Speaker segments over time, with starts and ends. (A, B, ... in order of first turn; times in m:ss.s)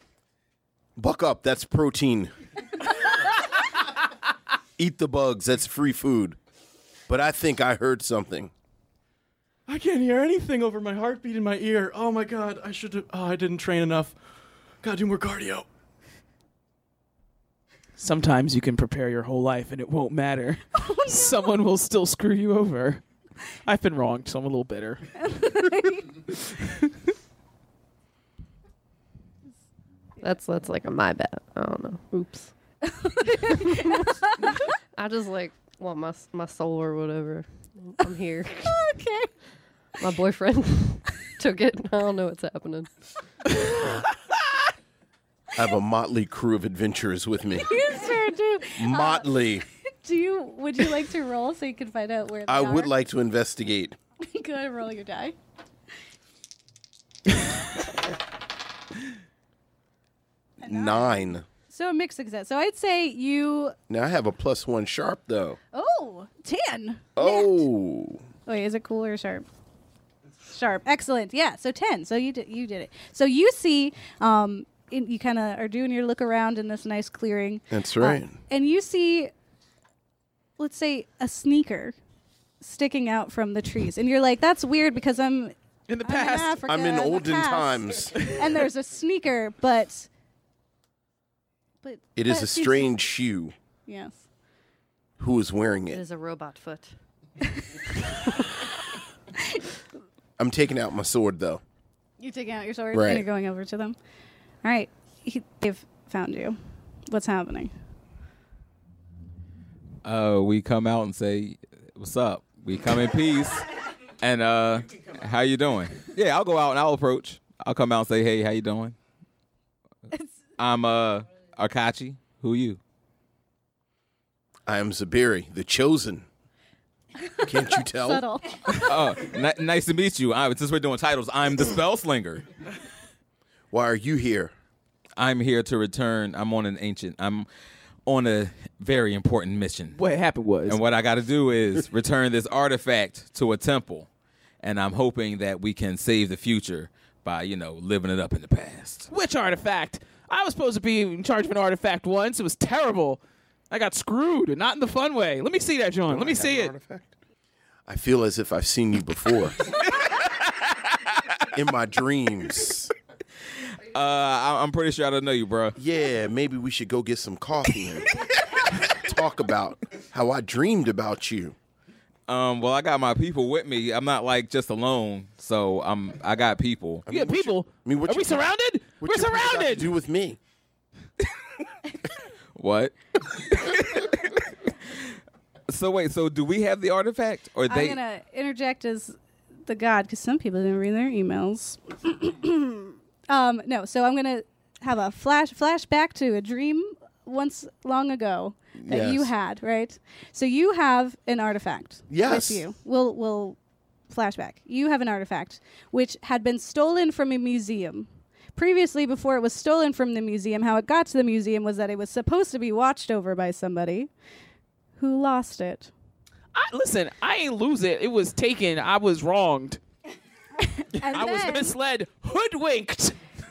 0:01.0-0:02.3 A
0:04.8-0:06.4 A
0:07.1-0:08.5 A
0:09.7-0:14.1 B
0:14.8-0:15.6 B
0:18.0-0:23.0 C
0:20.8-0:21.3 D
0:23.6-0:25.2 C
0:25.2-0:26.2 D
0:30.2-0:32.5 E
0:32.8-0:34.5 D
0:33.5-0:34.1 E
0:34.9-0:38.8 E
0:38.6-0:39.3 D
0:40.0-0:42.9 E
0:45.6-0:47.7 A
0:47.6-0:49.3 D
0:48.8-0:49.6 A
0:50.0-0:52.9 D
0:52.5-0:54.0 A
0:54.2-0:55.3 D
1:00.6-1:03.8 D
1:00.6-1:01.4 A
1:03.9-1:05.6 A
1:05.7-1:07.6 D
1:07.2-1:08.2 A
1:08.4-1:09.4 D
1:10.5-1:19.3 D
1:17.7-1:18.4 A
1:20.6-1:22.0 D
1:22.6-1:25.5 D
1:25.9-1:26.6 C
1:26.0-1:30.1 D
1:26.6-1:28.3 A
1:31.8-1:32.9 D
1:32.2-1:33.5 A
1:33.9-1:34.2 D
1:35.2-1:36.0 A
1:35.9-1:36.9 E
1:40.4-1:41.6 A
1:42.2-1:44.0 D
1:42.9-1:43.2 A
1:44.6-1:47.7 D
1:50.0-1:53.7 F
1:54.2-1:59.0 F
2:00.6-2:02.8 F
2:04.7-2:06.2 A
2:07.2-2:08.8 D
2:07.4-2:08.2 A
2:08.7-2:12.5 F
2:13.7-2:14.5 A
2:15.2-2:17.5 F
2:18.0-2:20.0 F
2:20.0-2:20.8 C
2:20.6-2:24.1 F
2:24.6-2:29.1 F
2:29.1-2:36.7 C
2:36.0-2:37.1 A
2:37.9-2:39.6 A
2:41.5-2:42.9 A
2:43.8-2:45.8 F
2:45.8-2:48.1 A
2:48.8-2:51.5 A
2:52.3-2:57.1 F
2:57.1-3:00.4 A
2:57.1-2:59.9 C
3:02.6-3:04.4 F
3:05.7-3:08.0 F
3:07.7-3:23.6 D
3:18.8-3:19.3 A
3:22.1-3:22.6 A
3:24.1-3:34.1 D
3:35.0-3:35.9 D
3:36.5-3:39.8 C
3:40.6-3:41.7 D
3:41.0-3:43.2 C